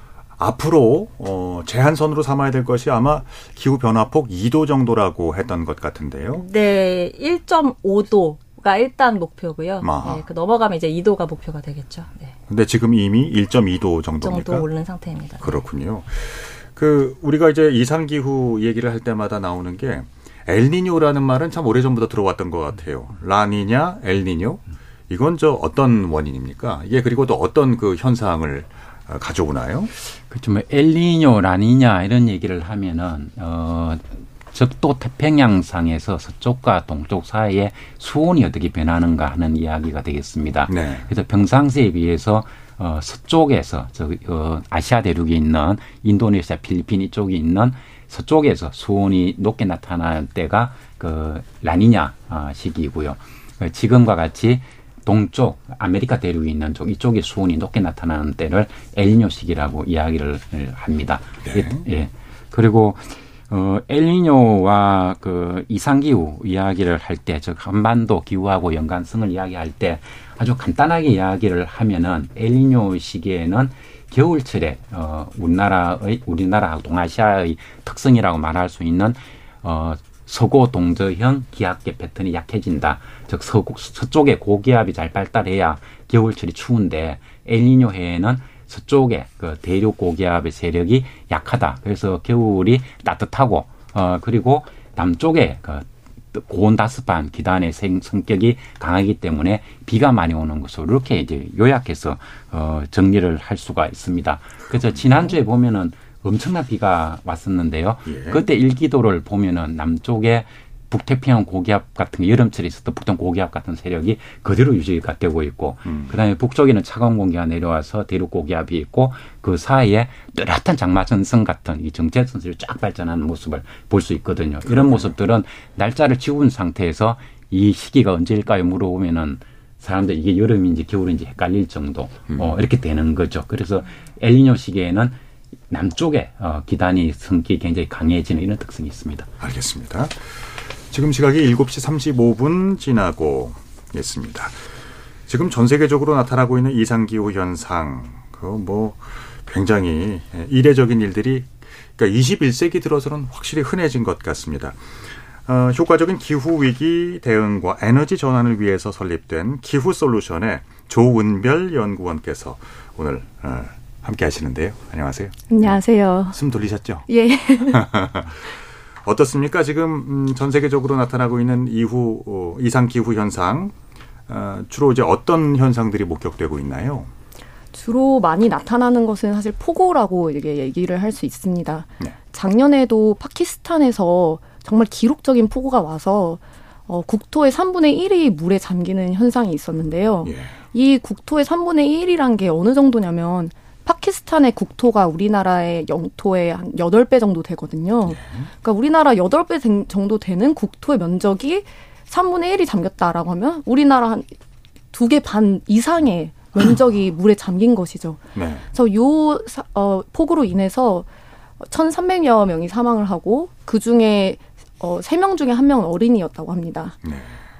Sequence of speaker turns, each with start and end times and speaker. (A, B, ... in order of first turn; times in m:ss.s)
0:00.4-0:06.4 A
0:06.4-0:12.3 B
0:09.8-0:10.2 A
0:12.5-0:14.7 A
0:14.2-0:15.5 B
0:15.4-0:29.9 A
0:30.2-2:15.2 C
0:40.7-0:41.1 A
1:01.4-1:01.8 A
1:44.7-1:45.3 A
1:48.0-1:48.4 A
1:55.8-1:56.2 A
2:04.6-2:05.1 A
2:12.3-2:12.5 A
2:15.7-2:19.3 C
2:19.4-2:24.6 A
2:25.3-2:34.8 A
2:35.4-2:47.1 A
2:45.5-2:46.4 D
2:47.1-2:47.8 D
2:47.7-2:48.5 A
2:49.0-2:53.7 A
2:54.3-2:57.1 A
2:57.7-3:24.3 D
3:10.2-3:10.6 A
3:18.0-3:18.5 A
3:24.9-3:28.2 D
3:28.3-3:28.6 A
3:28.7-3:31.1 D
3:31.6-3:37.0 D
3:37.0-3:37.4 A